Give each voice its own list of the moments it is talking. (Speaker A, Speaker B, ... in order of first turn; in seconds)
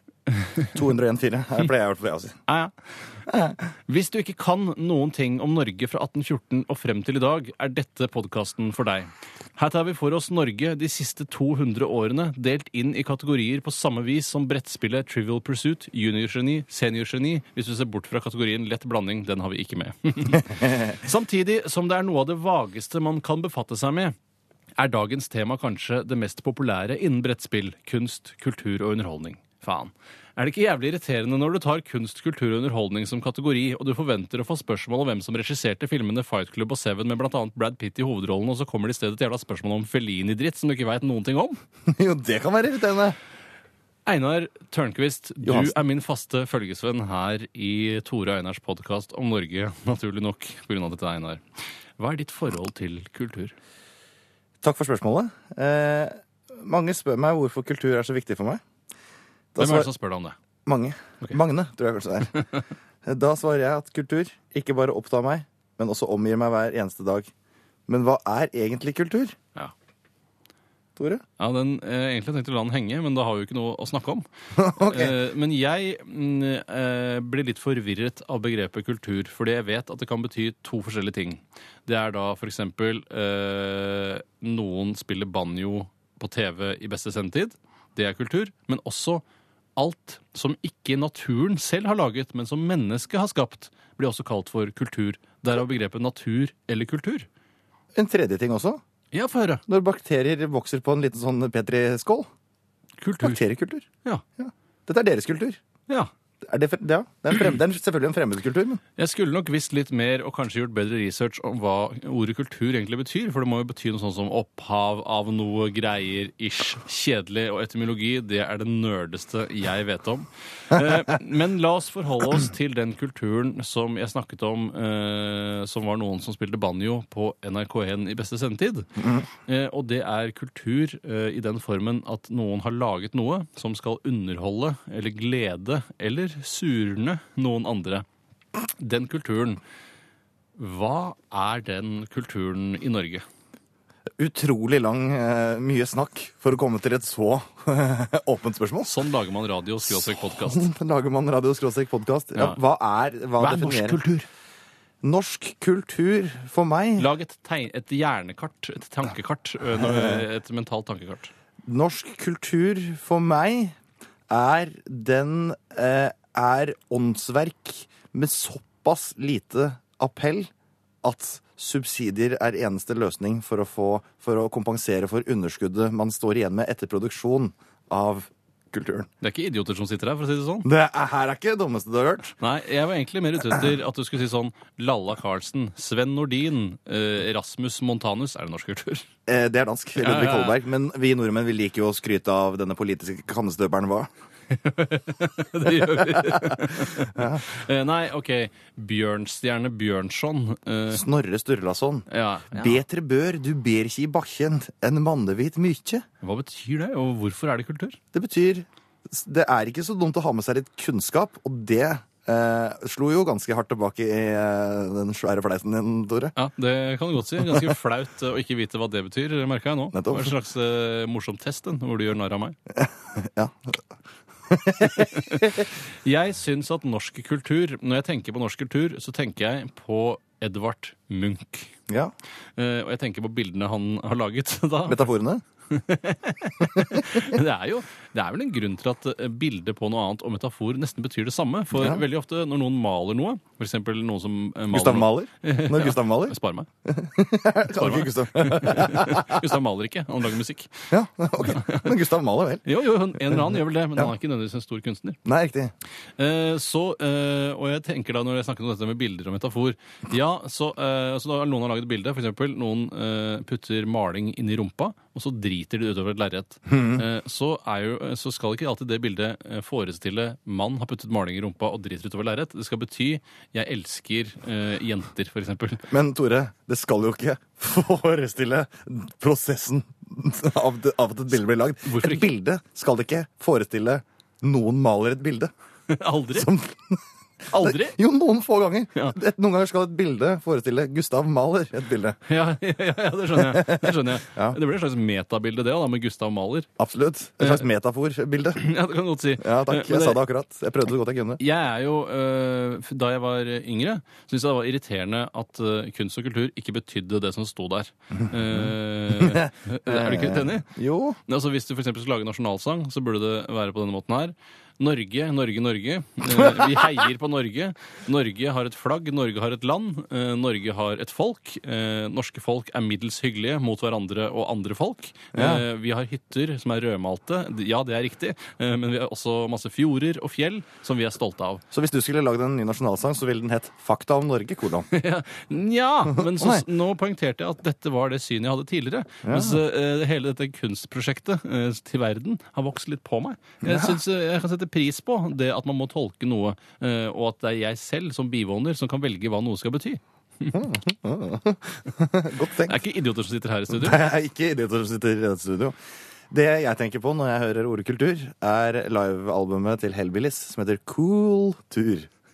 Speaker A: 0.3-0.7, 2.5-2.7, 3.9-24.1, 24.8-41.6, 44.1-51.4, 52.0-53.5, 59.6-60.4, 71.4-89.2, 89.8-97.3, 99.1-99.6, 103.0-103.4, 109.0-138.1, 138.8-139.6, 140.6-143.2, 148.8-150.7, 152.3-152.6, 153.4-154.3, 157.0-161.3, 179.2-180.7, 182.4-189.1, 190.0-190.6, 194.5-201.0, 202.1-202.8, 206.2-208.0, 216.4-222.6, 224.9-231.7, 232.6-235.1, 235.7-246.7, 247.7-250.8, 251.4-252.0, 252.6-255.2, 256.2-275.9, 281.9-282.3, 285.9-286.5, 287.5-288.0, 292.3-296.7, 298.6-300.2, 301.4-310.7, 311.3-331.6, 334.9-350.6, 352.6-354.0
Speaker B: 0.7-2.4, 3.3-3.6, 41.9-43.2, 45.4-45.8, 54.6-58.6, 59.5-59.9, 60.7-62.3, 63.0-67.3, 67.9-69.4, 71.0-71.2, 74.6-75.1, 98.0-98.8, 99.7-102.3, 103.2-103.9, 104.4-105.6, 106.4-108.8, 129.0-129.2, 144.2-149.0, 149.9-154.0, 155.0-157.1, 159.8-160.2, 161.7-163.8, 164.3-170.5, 171.0-179.1, 180.7-182.3, 189.3-194.1, 196.0-197.5, 200.9-206.0, 208.1-216.3, 219.9-220.3, 222.7-223.8, 224.5-225.6, 231.9-232.1, 234.9-235.4, 236.8-237.2, 241.7-242.0, 244.7-249.5, 250.9-252.7, 255.2-255.7, 266.7-267.0, 275.9-285.5, 286.3-292.2, 293.4-294.6, 296.8-298.6, 299.4-301.4, 308.2-311.2, 316.3-316.9, 325.3-325.6, 331.7-334.9, 336.2-336.6, 339.2-339.6, 343.6-344.0, 350.5-352.8, 353.7-355.8, 356.3-362.1